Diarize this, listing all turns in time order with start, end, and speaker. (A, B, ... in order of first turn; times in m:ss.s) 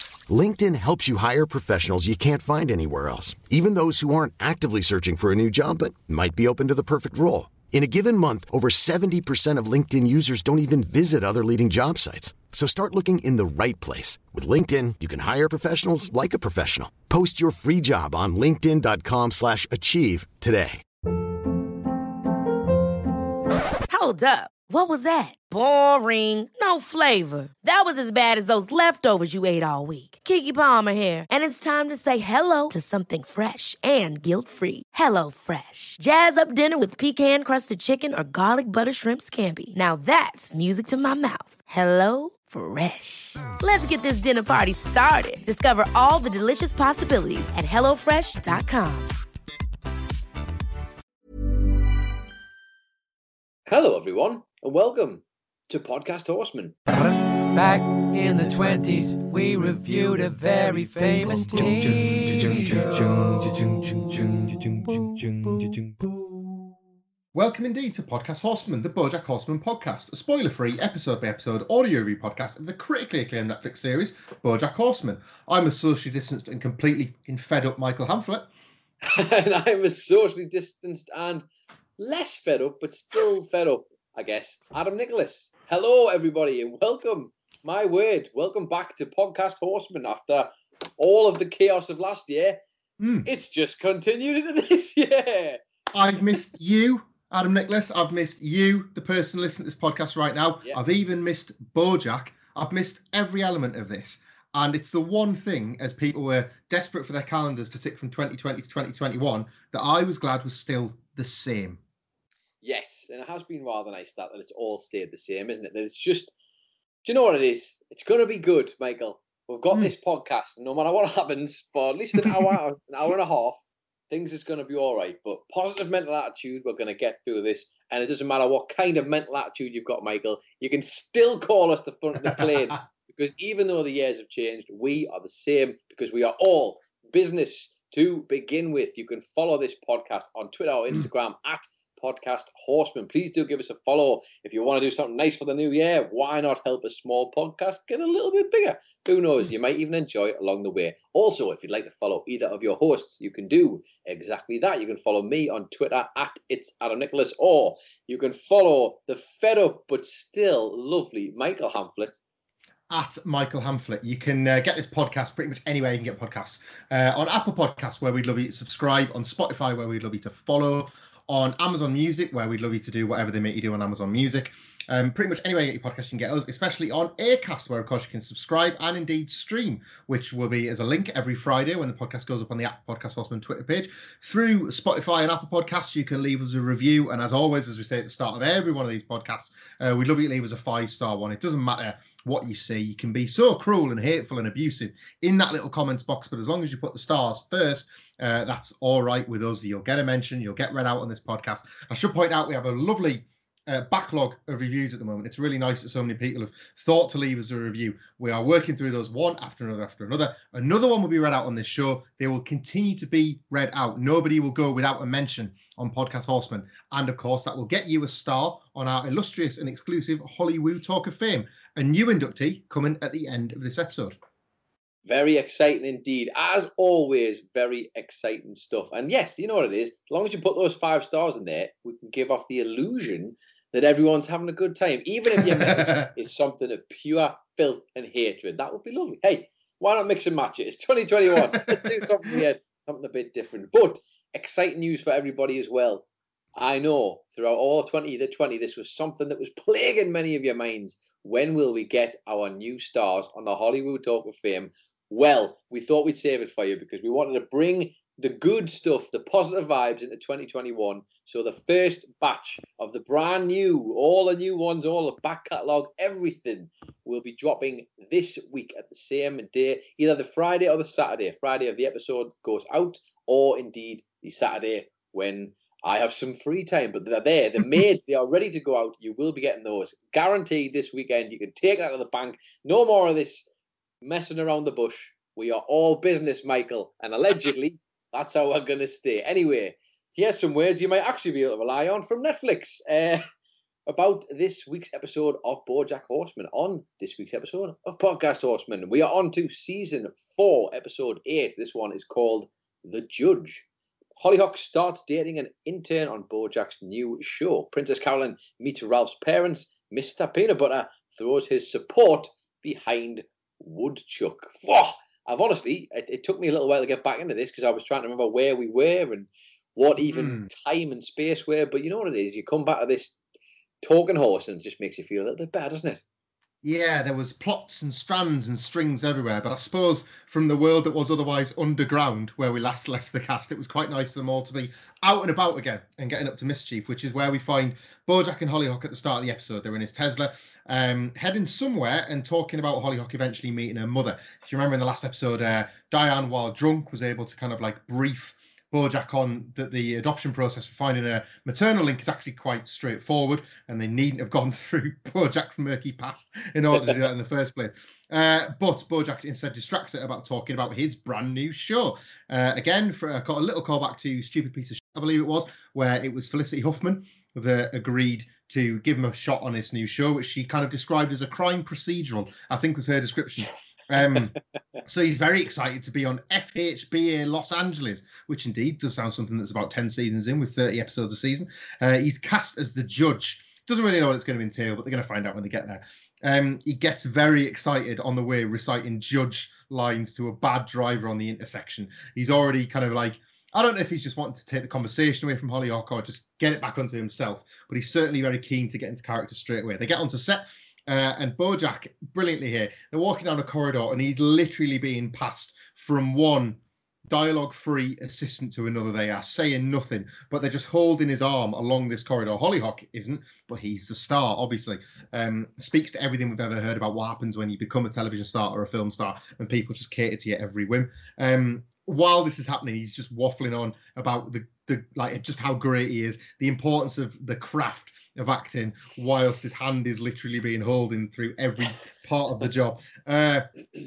0:00.3-0:20.8 A
0:23.9-0:49.1 B
0:53.7-0:56.8 C
0:56.9-1:06.5 D
1:07.3-1:18.5 E
1:19.0-1:21.5 C
1:22.0-1:32.6 C
1:33.0-1:33.3 E
1:33.2-1:35.6 C
1:35.9-1:51.8 E
1:52.6-1:56.3 C
1:57.0-2:42.2 C
2:12.2-2:12.8 E
2:42.9-3:44.2 E
3:45.0-4:43.5 C
3:55.4-3:56.1 E
4:01.6-4:01.9 E
4:44.0-4:53.2 C
4:53.9-5:03.6 C
5:04.2-5:23.2 C
5:20.0-5:20.5 E
5:23.8-5:26.0 C
5:26.6-7:13.5 E
5:56.8-5:57.0 C